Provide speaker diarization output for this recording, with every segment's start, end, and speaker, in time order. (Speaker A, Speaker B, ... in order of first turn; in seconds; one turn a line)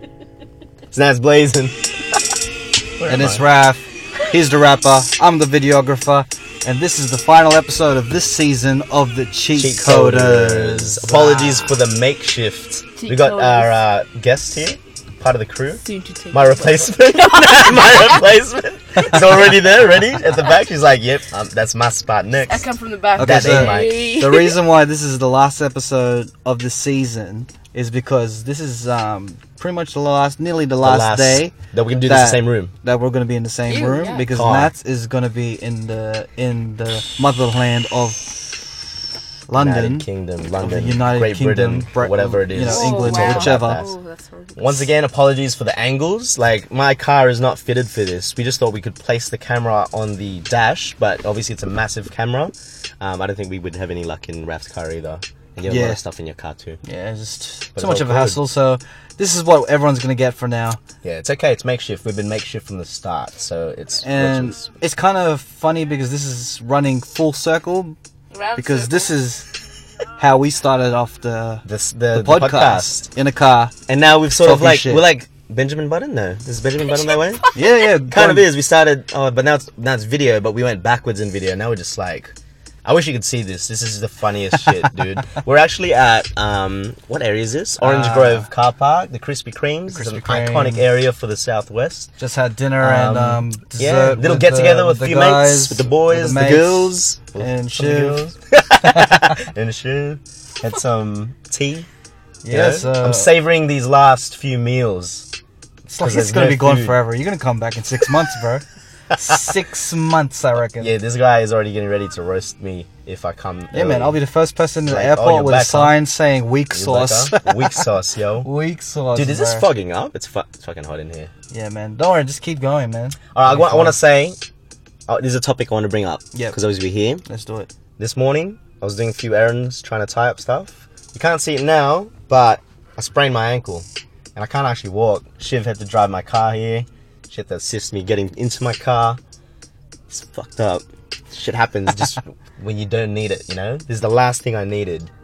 Speaker A: 0.9-2.2
Speaker A: 3.0-3.4
Speaker B: 3.1-11.7
Speaker A: 9.5-24.1
Speaker C: 13.0-13.7
Speaker C: 15.8-18.2
Speaker C: 22.4-24.6
Speaker B: 23.1-31.5
Speaker A: 30.8-32.7
Speaker B: 32.0-38.8
Speaker C: 33.7-34.3
Speaker A: 34.2-34.7
Speaker B: 39.5-40.0
Speaker A: 39.5-43.9
Speaker B: 40.6-43.8
Speaker C: 42.6-44.9
Speaker A: 44.5-56.8
Speaker B: 55.6-56.0
Speaker B: 56.8-60.8
Speaker A: 57.7-58.4
Speaker A: 61.0-64.7
Speaker B: 64.0-68.0
Speaker C: 68.3-69.1
Speaker B: 68.5-69.5
Speaker B: 70.2-73.7
Speaker A: 71.7-73.1
Speaker A: 73.9-77.4
Speaker B: 74.4-75.0
Speaker B: 77.5-78.5
Speaker A: 78.1-82.3
Speaker A: 82.8-92.1
Speaker B: 87.8-88.5
Speaker B: 89.9-90.8
Speaker B: 92.2-99.4
Speaker A: 92.8-101.9
Speaker B: 102.4-103.3
Speaker A: 102.5-105.3
Speaker B: 105.9-110.9
Speaker A: 106.0-107.0
Speaker A: 110.8-114.2
Speaker B: 113.7-117.8
Speaker A: 114.9-115.9
Speaker A: 116.7-118.5
Speaker B: 118.4-119.7
Speaker A: 119.1-121.3
Speaker B: 121.5-124.0
Speaker A: 123.3-124.4
Speaker A: 125.1-127.2
Speaker B: 127.2-127.7
Speaker A: 128.0-139.2
Speaker A: 140.1-145.1